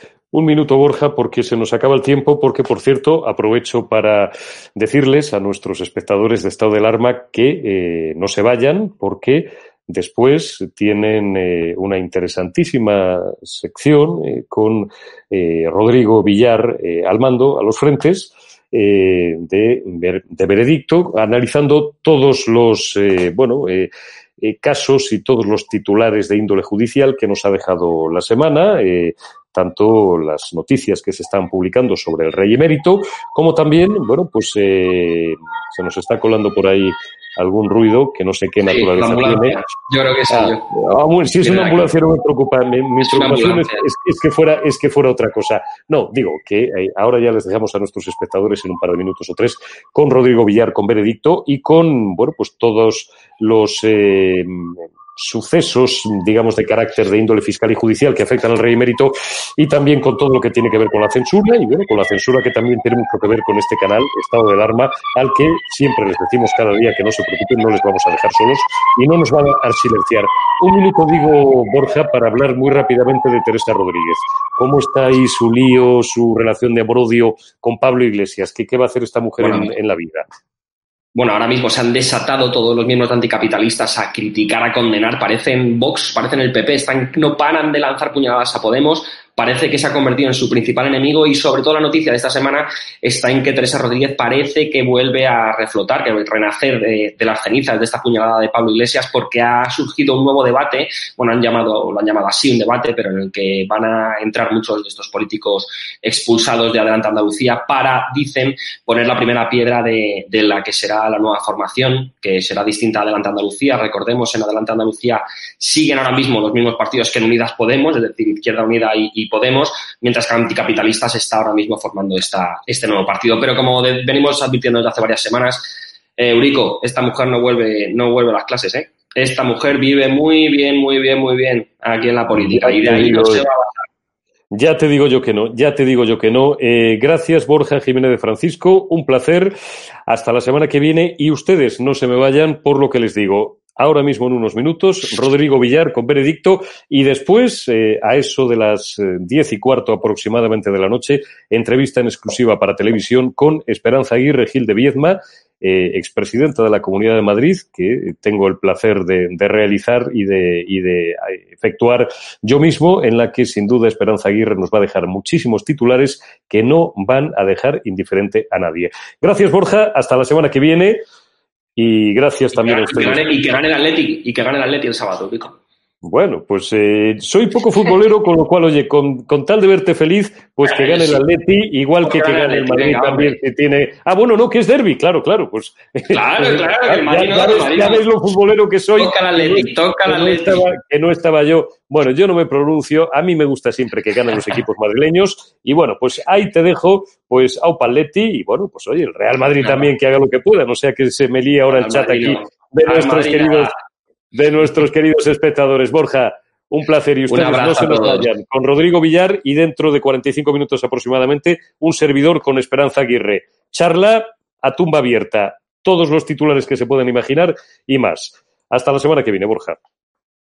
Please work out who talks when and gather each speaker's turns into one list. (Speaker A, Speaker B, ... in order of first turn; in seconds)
Speaker A: 0.3-23.9, 24.4-39.7, 40.3-80.2, 132.3-133.4, 134.5-139.6, 140.1-171.0, 171.8-173.2, 176.0-203.8, 204.3-219.8
Speaker B: 38.7-40.7, 41.4-41.9, 43.0-43.8, 79.4-79.7, 81.2-133.8, 172.6-175.6, 180.7-181.2, 182.0-183.4, 186.1-188.0, 189.0-190.7, 199.6-199.9, 201.7-203.7, 207.3-208.3